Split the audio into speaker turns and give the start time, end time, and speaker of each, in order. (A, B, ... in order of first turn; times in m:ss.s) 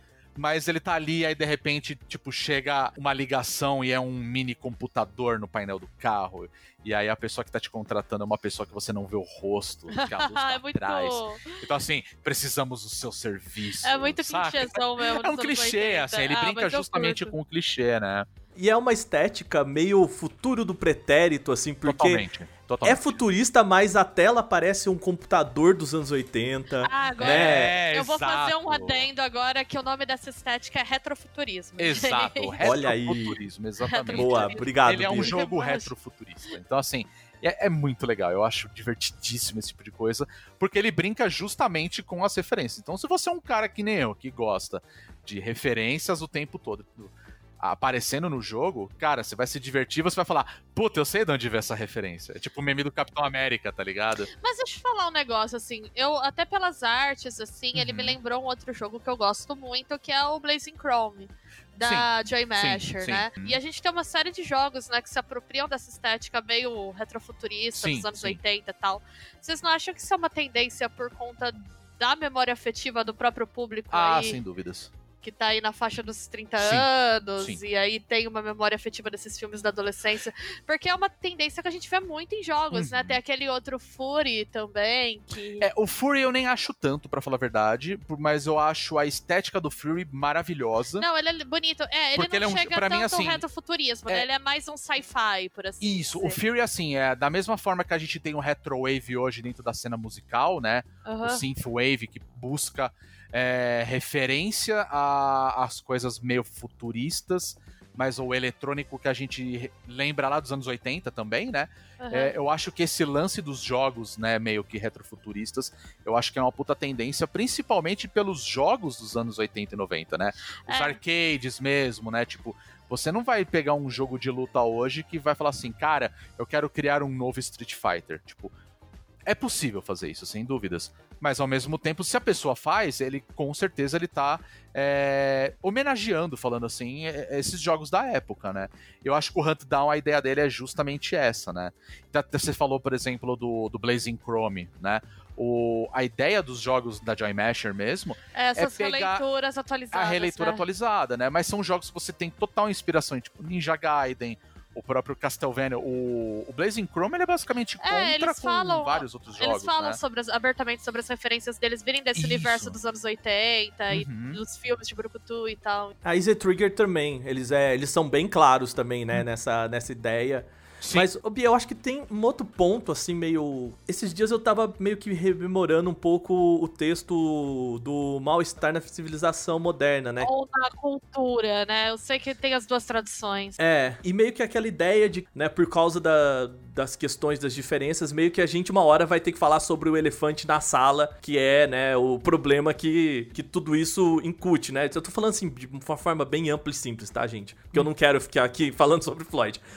0:00.4-0:18.3 A
0:09.9-0:11.6 B
0:13.8-0:17.3 B
0:18.6-0:22.2 C
0:21.8-0:23.2 A
0:22.8-0:27.7 C
0:26.8-0:32.6 B
0:27.2-0:29.1 A
0:31.8-0:54.3 A
0:32.6-0:33.4 C
0:33.9-0:35.9 B
0:34.1-0:35.4 C
0:54.4-1:14.4 B
0:57.7-0:58.2 A
1:01.8-1:03.6 A
1:07.8-1:08.4 A
1:13.9-1:14.9 A
1:15.2-1:25.7 B
1:16.6-1:16.9 A
1:22.7-1:23.2 A
1:25.6-1:31.0 A
1:31.0-1:36.4 B
1:32.2-1:33.4 A
1:35.8-2:08.5 A
1:41.0-1:41.4 B
1:52.0-1:52.3 B
2:00.7-2:01.0 B
2:09.3-2:29.2 A
2:28.3-2:30.6 B
2:29.9-2:40.0 A
2:37.8-2:46.0 B
2:42.2-2:42.8 A
2:43.9-2:44.4 A
2:46.0-3:00.3 C
2:50.8-2:51.1 A
3:00.2-3:03.6 B
3:03.6-3:19.6 C